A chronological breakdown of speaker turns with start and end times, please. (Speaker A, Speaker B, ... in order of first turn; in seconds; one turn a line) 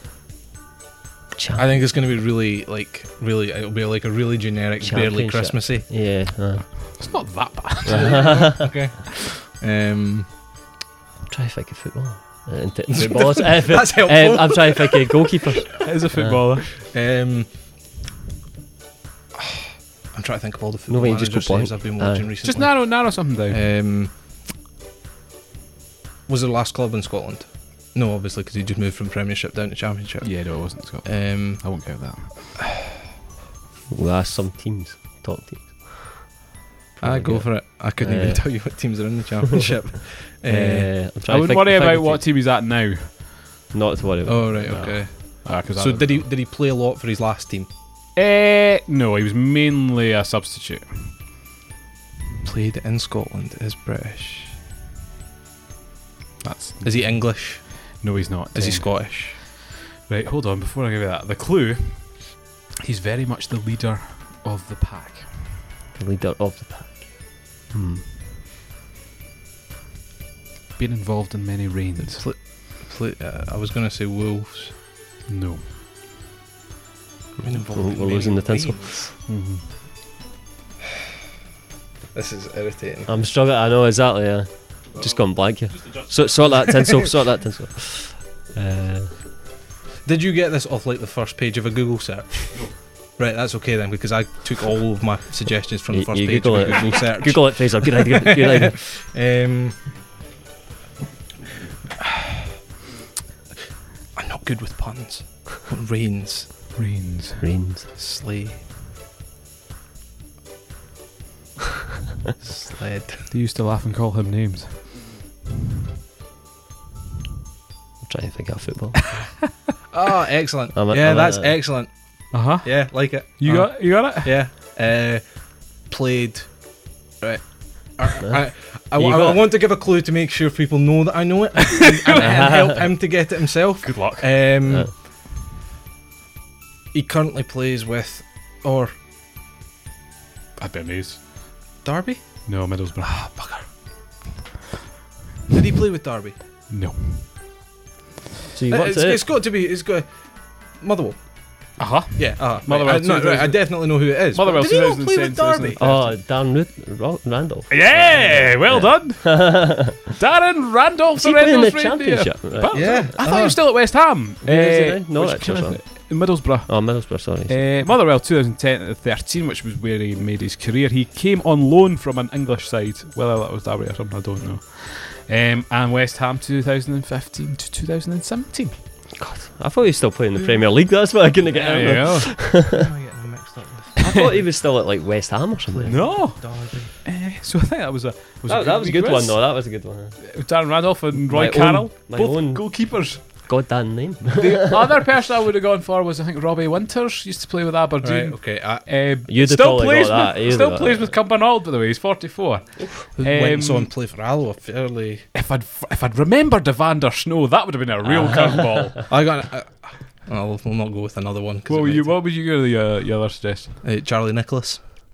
Speaker A: 1.4-1.7
Speaker B: 1.5-5.9
Speaker A: 4.8-7.1
Speaker C: 7.0-8.5
Speaker A: 7.8-8.7
Speaker B: 7.8-10.3
Speaker A: 11.3-16.4
Speaker B: 12.9-15.4
Speaker C: 15.8-16.8
Speaker B: 16.8-17.5
Speaker B: 19.4-24.1
Speaker A: 20.9-22.3
Speaker C: 22.4-23.6
Speaker B: 26.3-31.8
Speaker C: 30.2-32.5
Speaker A: 33.9-36.3
Speaker A: 37.0-38.7
Speaker B: 37.0-40.9
Speaker A: 40.5-42.2
Speaker C: 41.3-43.3
Speaker A: 43.7-44.7
Speaker B: 44.2-47.7
Speaker C: 44.6-46.2
Speaker C: 48.1-51.1
Speaker B: 52.4-54.6
Speaker C: 56.4-65.6
Speaker B: 56.8-58.0
Speaker B: 58.5-59.4
Speaker A: 65.9-68.1
Speaker C: 70.8-72.3
Speaker B: 72.0-74.8
Speaker C: 75.3-75.7
Speaker A: 77.4-78.9
Speaker B: 77.4-79.2
Speaker C: 79.3-79.7
Speaker B: 82.1-83.1
Speaker A: 83.0-89.2
Speaker C: 85.5-86.6
Speaker B: 90.0-99.8
Speaker A: 95.9-98.8
Speaker B: 104.1-106.5
Speaker C: 106.7-107.5
Speaker A: 107.4-107.9
Speaker B: 107.9-108.6
Speaker B: 112.4-113.3
Speaker C: 113.3-115.0
Speaker A: 118.0-119.0
Speaker B: 119.9-135.0
Speaker A: 120.7-121.6
Speaker C: 122.3-124.4
Speaker A: 128.9-129.4
Speaker C: 131.7-132.6
Speaker A: 132.2-132.8
Speaker C: 133.8-134.6
Speaker B: 136.9-138.9
Speaker C: 140.6-141.2
Speaker B: 141.8-143.7
Speaker C: 142.4-143.3
Speaker B: 145.5-146.4
Speaker C: 146.7-147.3
Speaker A: 148.5-149.2
Speaker B: 148.7-156.0
Speaker C: 151.8-156.2
Speaker A: 155.8-160.0
Speaker C: 157.7-178.8
Speaker B: 157.9-158.5
Speaker A: 161.2-163.2
Speaker B: 162.7-163.6
Speaker A: 164.4-167.7
Speaker A: 179.2-182.8
Speaker C: 181.5-182.4
Speaker B: 182.4-184.3
Speaker A: 184.0-186.1
Speaker B: 185.7-186.9
Speaker C: 185.9-189.6
Speaker A: 188.4-190.3
Speaker C: 190.3-193.6
Speaker A: 191.2-194.8
Speaker C: 194.3-203.9
Speaker B: 198.0-198.9
Speaker A: 199.2-201.1
Speaker B: 203.1-205.3
Speaker C: 205.3-209.2
Speaker A: 208.1-208.8
Speaker B: 209.1-212.2
Speaker C: 211.7-213.8
Speaker B: 213.8-214.8